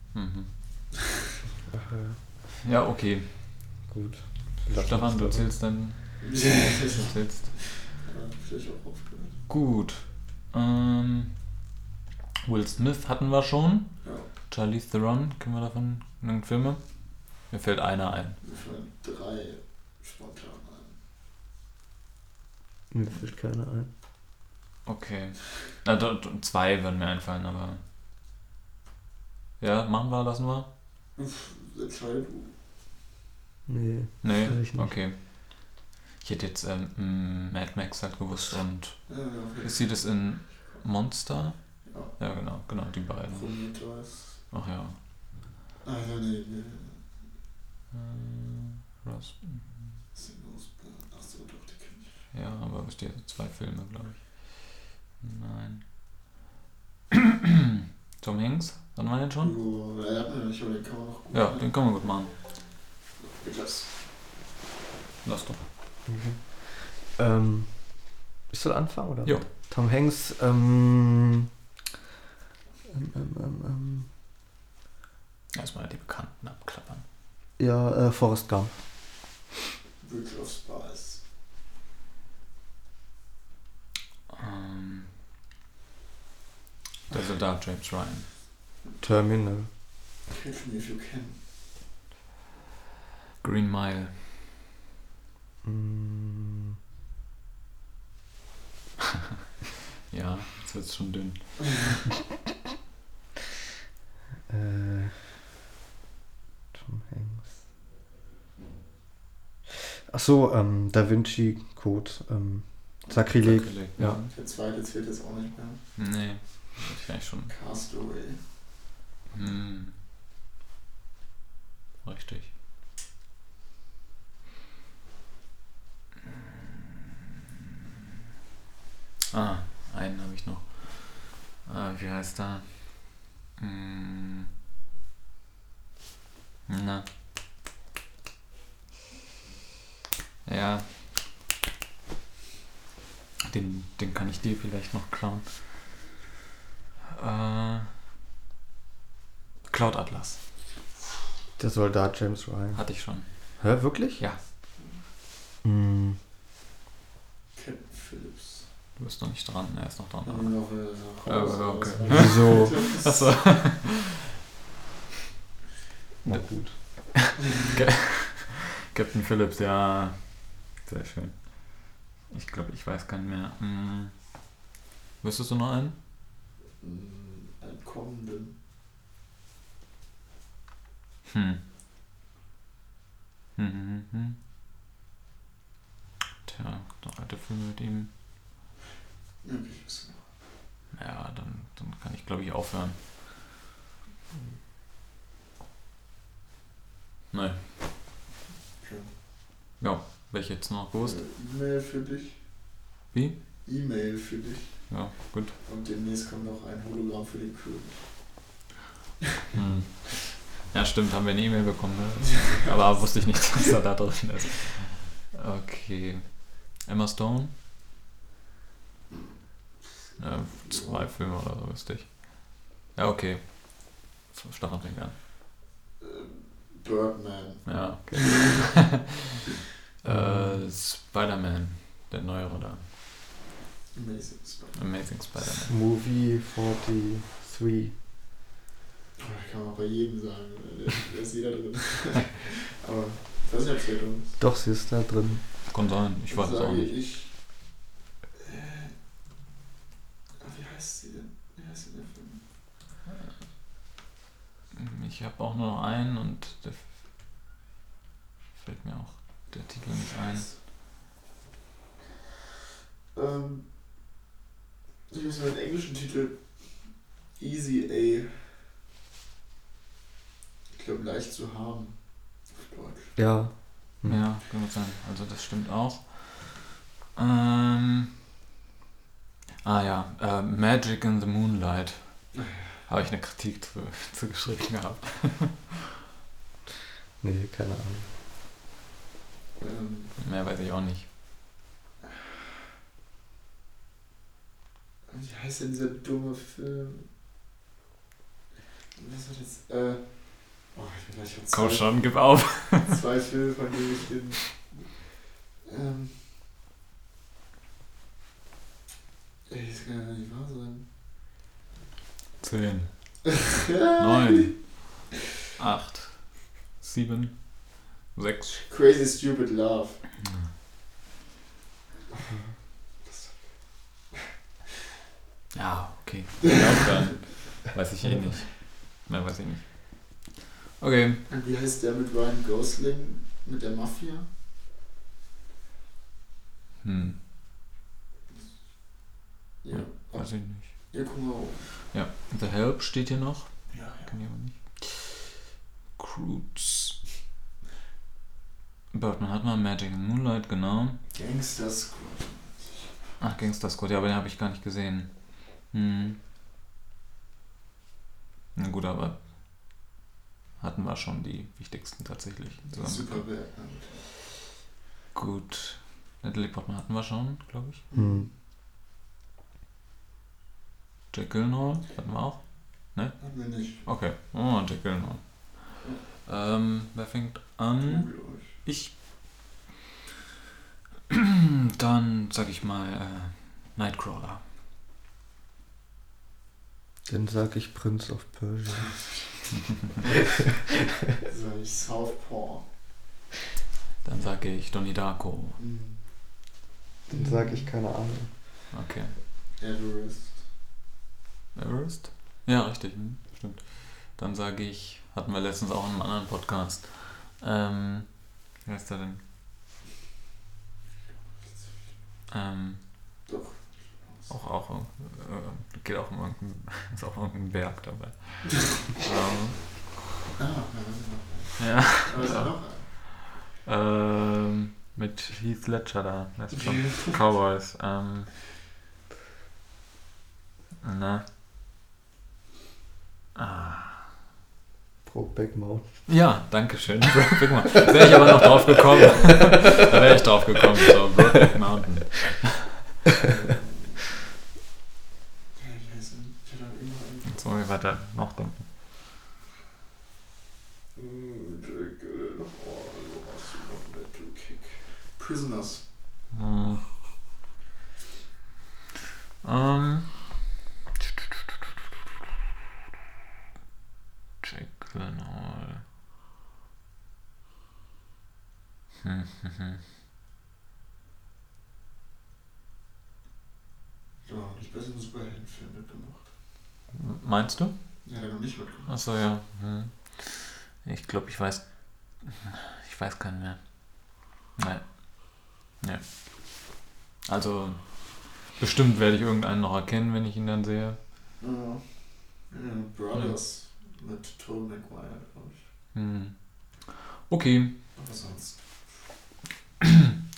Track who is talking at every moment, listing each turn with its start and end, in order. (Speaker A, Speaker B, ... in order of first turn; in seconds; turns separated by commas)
Speaker A: 0.1-0.5, Speaker B: 1.7-2.2, Speaker A: 2.6-3.4, Speaker B: 3.9-5.5, Speaker A: 4.7-7.6, Speaker C: 6.2-9.4, Speaker A: 9.5-11.4, Speaker A: 12.4-16.8, Speaker C: 14.0-14.3, Speaker A: 17.4-18.4, Speaker C: 18.4-21.0, Speaker B: 22.9-23.9, Speaker A: 24.9-27.8, Speaker A: 29.6-30.7, Speaker C: 31.1-32.5, Speaker B: 33.7-34.9, Speaker A: 34.2-35.2, Speaker A: 36.2-43.7, Speaker C: 39.1-39.9, Speaker C: 41.9-42.2, Speaker C: 43.3-44.4, Speaker A: 44.5-45.0, Speaker C: 45.8-47.0, Speaker A: 47.9-49.9, Speaker C: 50.1-52.1, Speaker A: 52.3-55.9, Speaker A: 57.1-57.6, Speaker A: 58.2-59.6, Speaker C: 59.4-61.6, Speaker A: 61.3-62.4, Speaker C: 63.2-63.9, Speaker A: 65.2-65.6, Speaker B: 66.1-71.5, Speaker B: 72.9-74.1, Speaker A: 75.5-77.0, Speaker B: 77.6-78.8, Speaker C: 80.0-81.2, Speaker A: 84.3-85.1, Speaker A: 87.1-88.3, Speaker B: 89.0-89.7, Speaker C: 90.3-91.4, Speaker A: 93.4-94.5, Speaker B: 95.6-96.8, Speaker A: 100.1-102.1, Speaker B: 104.5-105.3, Speaker B: 106.7-107.6, Speaker B: 109.7-114.2, Speaker A: 113.4-114.3, Speaker C: 114.2-115.8, Speaker A: 116.0-117.5, Speaker C: 117.5-118.4, Speaker A: 119.3-120.0, Speaker A: 122.0-122.5, Speaker A: 129.3-134.5, Speaker A: 136.7-137.1, Speaker A: 140.4-141.2, Speaker A: 143.4-145.9, Speaker A: 147.1-147.9, Speaker A: 149.7-150.4, Speaker B: 151.6-152.8, Speaker A: 152.8-153.3, Speaker B: 153.6-154.2, Speaker B: 155.6-156.2, Speaker C: 157.6-158.7, Speaker A: 159.0-160.6, Speaker C: 160.2-163.3, Speaker A: 161.2-164.3, Speaker B: 162.1-162.8, Speaker B: 166.2-166.8, Speaker A: 166.3-174.1, Speaker A: 175.2-175.9, Speaker C: 176.8-178.6, Speaker A: 181.3-181.6, Speaker A: 183.6-184.4, Speaker A: 186.5-188.1, Speaker C: 189.4-190.2, Speaker A: 190.9-193.0, Speaker A: 197.3-197.7, Speaker C: 198.8-199.1, Speaker A: 199.8-201.2, Speaker C: 201.0-202.4, Speaker C: 203.6-204.9, Speaker A: 204.9-205.6, Speaker C: 205.6-208.1, Speaker A: 209.5-217.5, Speaker C: 212.3-213.1, Speaker A: 220.2-225.2, Speaker C: 220.6-221.1, Speaker C: 226.0-228.4, Speaker A: 227.7-229.4, Speaker A: 230.0-232.9, Speaker B: 230.1-230.6, Speaker C: 233.9-234.9, Speaker A: 234.8-235.7, Speaker B: 235.6-237.9, Speaker C: 239.2-244.4, Speaker B: 244.4-245.4, Speaker A: 245.7-246.9, Speaker C: 246.3-247.4, Speaker C: 248.4-248.9, Speaker C: 250.4-252.4, Speaker A: 254.7-256.9, Speaker A: 258.6-260.6, Speaker C: 263.1-263.7, Speaker C: 265.1-266.7, Speaker C: 267.4-268.6, Speaker C: 270.7-273.1, Speaker B: 273.1-274.2, Speaker A: 274.1-278.1, Speaker A: 279.6-285.9, Speaker C: 282.4-282.7, Speaker B: 287.2-288.1, Speaker C: 289.6-290.1, Speaker A: 290.2-291.1, Speaker C: 292.0-292.4, Speaker C: 295.1-297.1, Speaker C: 298.9-304.9, Speaker A: 301.5-303.0, Speaker C: 305.6-306.2, Speaker C: 309.5-310.9, Speaker A: 312.4-312.9, Speaker C: 313.2-314.5, Speaker A: 314.0-316.3, Speaker A: 316.8-318.6, Speaker C: 318.6-320.0, Speaker C: 323.0-323.4, Speaker A: 325.5-331.2, Speaker C: 331.3-334.3, Speaker A: 336.8-337.2, Speaker C: 339.6-341.6, Speaker A: 339.7-340.7, Speaker A: 341.9-345.4, Speaker C: 343.7-344.1, Speaker A: 346.0-347.0, Speaker A: 348.9-351.0, Speaker C: 351.1-353.2, Speaker A: 353.2-356.2, Speaker A: 358.6-359.2, Speaker A: 360.6-363.2, Speaker C: 362.7-364.0, Speaker A: 365.1-367.8, Speaker C: 367.9-368.3, Speaker B: 367.9-368.3, Speaker A: 371.1-379.0, Speaker C: 373.2-373.9, Speaker C: 377.8-378.6, Speaker A: 381.1-384.4, Speaker B: 387.1-389.0, Speaker C: 391.3-392.6, Speaker A: 394.0-395.6, Speaker C: 395.6-396.0, Speaker B: 397.1-398.3, Speaker C: 397.1-397.7, Speaker A: 398.7-399.1, Speaker C: 399.6-400.4, Speaker A: 401.6-409.2, Speaker A: 412.3-412.8, Speaker C: 413.3-414.3, Speaker A: 414.3-419.8, Speaker C: 420.4-422.9, Speaker A: 421.6-428.4, Speaker A: 430.8-431.2, Speaker A: 433.4-434.1, Speaker B: 435.1-436.0, Speaker A: 436.1-442.7, Speaker B: 439.5-439.9, Speaker C: 443.2-444.1, Speaker C: 445.6-447.4, Speaker A: 447.3-448.6, Speaker C: 450.9-455.8, Speaker A: 456.3-456.9, Speaker A: 459.4-460.4, Speaker A: 464.4-465.9, Speaker A: 469.0-469.8, Speaker C: 474.2-476.3, Speaker A: 476.9-477.8, Speaker C: 478.0-479.0, Speaker A: 478.9-481.7, Speaker A: 482.2-486.7, Speaker A: 487.2-491.0, Speaker C: 491.4-495.7, Speaker A: 495.9-497.8, Speaker C: 498.0-498.6, Speaker A: 499.8-500.1